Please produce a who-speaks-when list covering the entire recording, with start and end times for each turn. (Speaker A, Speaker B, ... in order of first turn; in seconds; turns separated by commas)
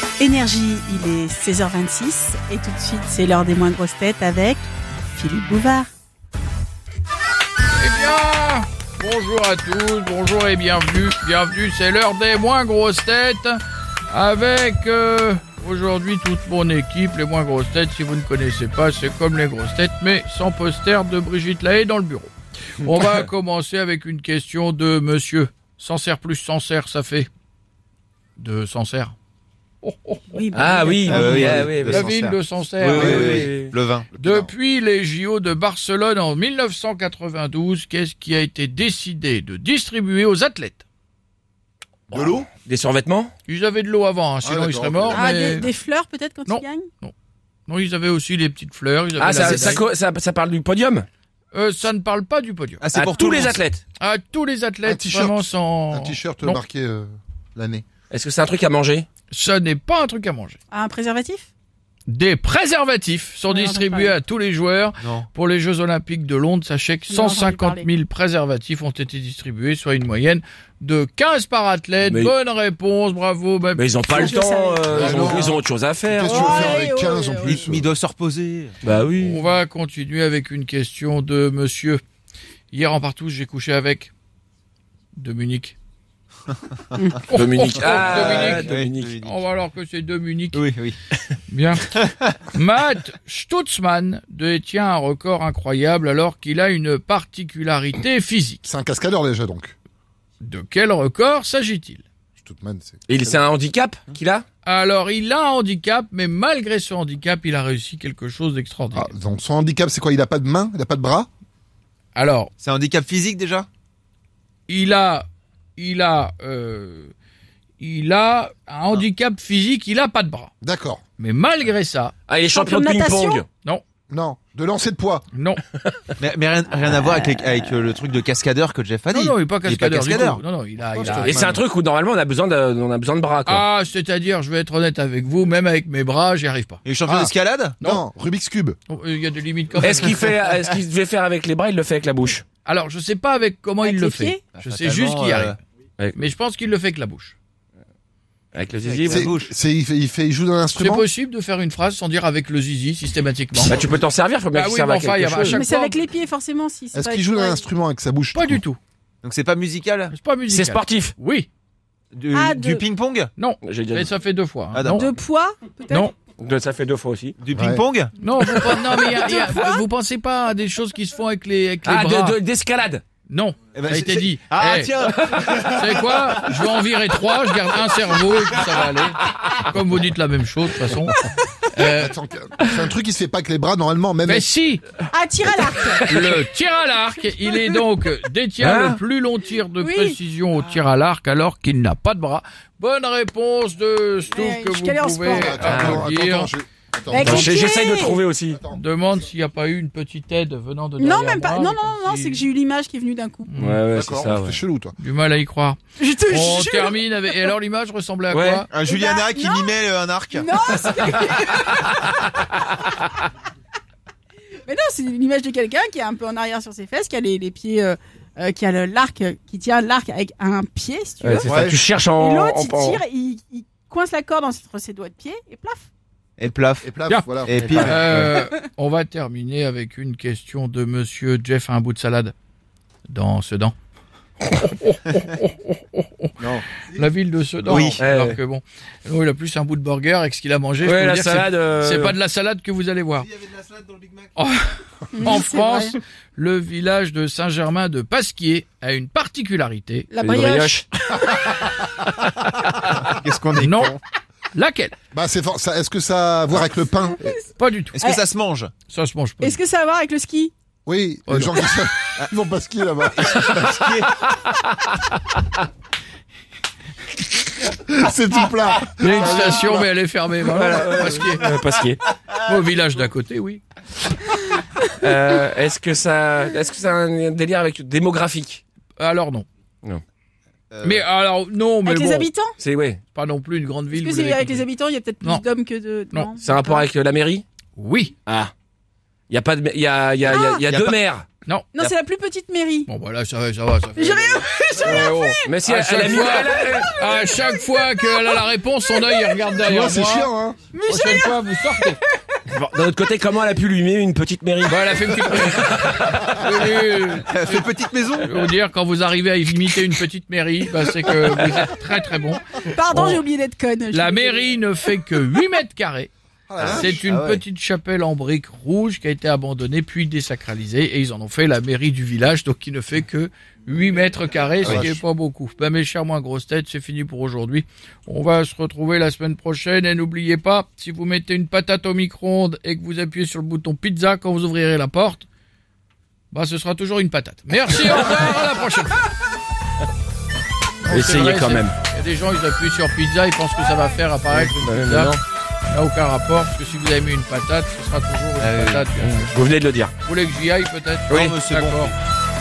Speaker A: 0.2-5.9, Speaker B: 7.8-27.3, Speaker C: 22.9-23.3, Speaker B: 28.4-29.2, Speaker B: 29.8-30.4, Speaker A: 30.3-31.6, Speaker C: 30.5-32.1, Speaker D: 31.0-32.4, Speaker B: 31.6-33.5, Speaker C: 32.8-33.8, Speaker D: 33.0-34.1, Speaker E: 33.0-33.4, Speaker E: 34.1-34.5, Speaker B: 34.2-40.8, Speaker E: 42.1-42.5, Speaker B: 42.1-42.4, Speaker C: 42.5-43.3, Speaker B: 43.5-45.7, Speaker E: 44.4-45.7, Speaker A: 45.1-46.9, Speaker B: 46.5-47.1, Speaker B: 47.7-49.8, Speaker C: 49.2-51.1, Speaker D: 49.4-49.8, Speaker B: 51.5-52.9, Speaker D: 52.8-53.6, Speaker C: 53.0-53.8, Speaker B: 54.0-56.6, Speaker E: 54.9-57.9, Speaker C: 58.1-59.1, Speaker B: 59.3-60.6, Speaker A: 60.7-61.5, Speaker B: 62.1-73.9, Speaker A: 63.5-64.1, Speaker D: 65.0-65.3, Speaker A: 67.1-67.9, Speaker C: 72.0-72.3, Speaker C: 73.8-76.7, Speaker A: 74.1-75.1, Speaker B: 74.9-75.5, Speaker E: 75.0-77.9, Speaker A: 76.2-77.6, Speaker D: 77.4-78.8, Speaker C: 78.8-79.4, Speaker B: 79.2-82.0, Speaker B: 82.7-84.1, Speaker B: 85.1-85.8, Speaker B: 87.2-90.7, Speaker C: 87.3-89.2, Speaker D: 87.9-89.5, Speaker D: 90.5-91.0, Speaker B: 91.5-91.9, Speaker B: 92.5-98.7, Speaker E: 98.7-99.8, Speaker B: 100.4-102.0, Speaker E: 102.4-103.0, Speaker C: 103.1-104.5, Speaker B: 104.7-109.1, Speaker E: 108.9-111.3, Speaker B: 112.2-112.5, Speaker D: 112.6-113.7, Speaker B: 114.7-117.1, Speaker B: 117.8-120.5, Speaker E: 120.6-121.0, Speaker B: 121.2-122.2, Speaker C: 122.3-123.5, Speaker A: 122.5-123.4, Speaker E: 124.1-125.2, Speaker B: 125.3-125.6, Speaker D: 126.2-130.4, Speaker B: 129.1-131.4, Speaker E: 130.9-131.6, Speaker C: 131.0-133.7, Speaker B: 133.5-136.8, Speaker D: 136.8-137.8, Speaker E: 137.1-138.8, Speaker B: 138.9-140.2, Speaker C: 139.8-142.4, Speaker B: 142.7-145.6, Speaker A: 143.8-144.5, Speaker D: 144.5-145.6, Speaker B: 146.2-147.4, Speaker C: 148.5-149.3, Speaker D: 148.9-149.5, Speaker E: 149.1-151.1, Speaker B: 150.8-153.8, Speaker C: 153.6-155.6, Speaker B: 154.5-156.0, Speaker A: 155.4-157.7, Speaker E: 156.9-158.6, Speaker B: 158.3-158.8, Speaker D: 159.2-160.1, Speaker B: 160.1-161.5, Speaker C: 160.5-161.2, Speaker D: 162.1-163.3, Speaker A: 162.3-162.8, Speaker B: 163.4-165.1, Speaker C: 163.6-164.1, Speaker D: 164.7-165.1, Speaker A: 164.9-166.1, Speaker B: 165.9-166.1, Speaker C: 166.4-167.4, Speaker D: 167.4-168.1, Speaker E: 167.5-167.8, Speaker B: 168.2-172.4, Speaker A: 168.7-169.8, Speaker C: 171.8-173.0, Speaker B: 173.3-181.2, Speaker D: 173.7-176.7, Speaker B: 181.7-182.8, Speaker E: 181.8-184.5, Speaker B: 184.2-184.8, Speaker A: 185.1-186.1, Speaker B: 186.1-196.5, Speaker C: 188.6-189.0, Speaker A: 189.8-190.2, Speaker A: 194.3-195.7, Speaker E: 195.3-197.6, Speaker C: 195.6-196.1, Speaker A: 197.1-198.2, Speaker C: 197.2-198.6, Speaker E: 198.5-198.8, Speaker B: 198.7-202.5, Speaker A: 201.0-203.5, Speaker B: 203.5-203.8, Speaker C: 203.6-204.6, Speaker E: 203.9-204.9, Speaker B: 205.0-208.7, Speaker A: 206.0-207.4, Speaker C: 208.3-208.7, Speaker D: 208.7-210.5, Speaker A: 208.8-209.7, Speaker A: 210.3-212.2, Speaker C: 211.2-212.4, Speaker A: 214.7-225.9, Speaker C: 221.2-223.0, Speaker E: 221.4-221.8, Speaker D: 226.4-226.9, Speaker E: 226.8-228.3, Speaker B: 227.1-232.3, Speaker D: 227.4-228.4, Speaker B: 233.1-233.8, Speaker B: 234.5-236.4, Speaker B: 236.9-243.3, Speaker D: 237.7-238.0, Speaker C: 238.0-238.4, Speaker C: 240.8-242.2, Speaker D: 243.3-244.3, Speaker B: 244.4-250.1, Speaker A: 245.1-246.0, Speaker A: 250.1-251.7, Speaker C: 250.2-250.8, Speaker D: 252.9-254.0, Speaker B: 253.6-253.9, Speaker B: 254.5-254.9, Speaker E: 255.1-257.3, Speaker B: 257.6-258.0, Speaker D: 257.9-258.7, Speaker B: 258.9-259.6, Speaker A: 259.4-260.5, Speaker E: 260.9-263.8, Speaker B: 261.3-261.6, Speaker D: 263.2-264.1, Speaker E: 267.5-269.9, Speaker B: 269.0-271.5, Speaker C: 270.4-272.0, Speaker B: 272.4-273.6, Speaker C: 275.0-278.6, Speaker B: 279.0-279.5, Speaker D: 280.7-281.1, Speaker B: 280.8-282.3, Speaker A: 281.8-282.6, Speaker C: 282.6-283.0, Speaker B: 283.1-284.7, Speaker A: 283.9-286.9, Speaker C: 286.4-287.4, Speaker B: 287.8-288.1, Speaker C: 288.3-288.5, Speaker C: 289.3-291.3, Speaker A: 290.2-290.6, Speaker D: 290.7-291.0, Speaker A: 291.7-292.9, Speaker B: 292.9-300.3, Speaker A: 294.0-295.1, Speaker C: 295.4-296.9, Speaker E: 299.6-300.7, Speaker A: 300.7-301.4, Speaker B: 300.9-302.0, Speaker C: 302.5-306.0, Speaker B: 304.6-307.7, Speaker D: 307.2-308.3, Speaker B: 308.2-313.2, Speaker A: 312.6-314.5, Speaker B: 313.9-335.3, Speaker E: 316.5-317.0, Speaker D: 316.6-317.4, Speaker E: 324.6-324.9, Speaker D: 324.6-324.9, Speaker B: 336.3-339.0, Speaker B: 340.8-349.3, Speaker C: 340.9-341.8, Speaker C: 344.3-345.2, Speaker D: 348.4-348.9, Speaker C: 349.0-349.9, Speaker B: 350.0-351.9, Speaker C: 351.1-351.4, Speaker D: 351.1-351.9